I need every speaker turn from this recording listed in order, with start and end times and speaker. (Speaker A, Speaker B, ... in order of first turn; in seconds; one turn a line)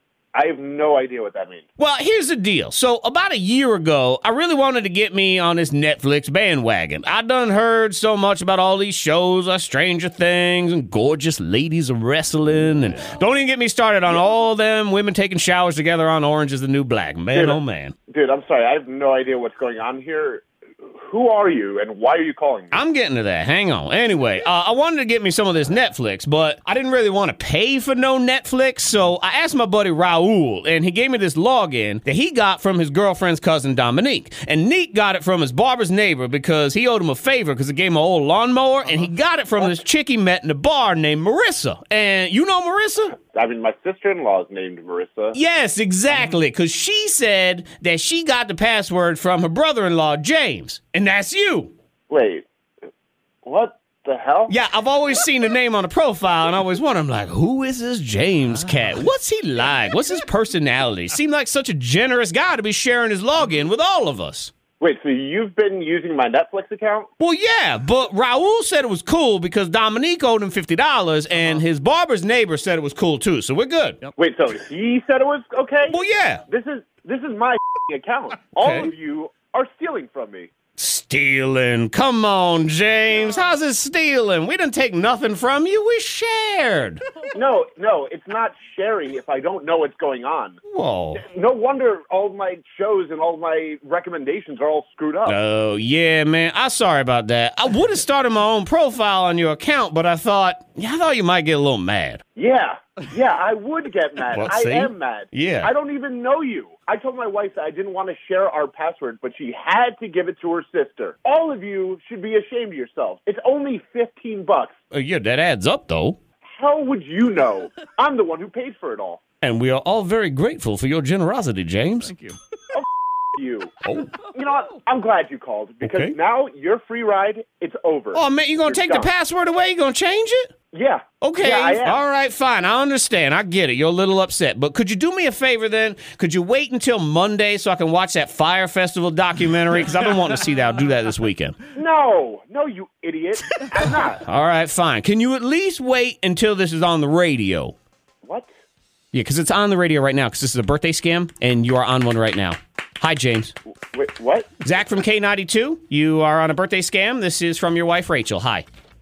Speaker A: 0.3-1.6
Speaker B: 1.8-17.9
Speaker A: 17.3-22.8
Speaker B: 22.7-43.1
Speaker A: 43.2-45.4
Speaker B: 45.3-51.7
Speaker A: 52.1-52.5
Speaker A: 53.4-54.5
Speaker B: 54.5-64.5
Speaker A: 64.8-67.1
Speaker B: 67.2-74.1
Speaker A: 74.2-80.5
Speaker B: 75.9-76.4
Speaker B: 78.5-78.9
Speaker B: 80.8-87.0
Speaker A: 87.3-90.6
Speaker B: 90.7-91.2
Speaker A: 91.1-95.4
Speaker B: 95.2-102.2
Speaker A: 102.3-114.8
Speaker B: 104.3-105.7
Speaker B: 114.9-116.2
Speaker A: 116.5-119.2
Speaker B: 119.4-122.4
Speaker A: 122.7-129.1
Speaker B: 123.8-124.3
Speaker B: 125.8-126.2
Speaker B: 128.1-130.5
Speaker A: 130.7-132.0
Speaker B: 131.2-141.6
Speaker A: 141.7-144.2
Speaker B: 144.2-147.7
Speaker A: 148.2-148.5
Speaker B: 149.1-153.5
Speaker A: 153.9-154.5
Speaker B: 154.6-158.7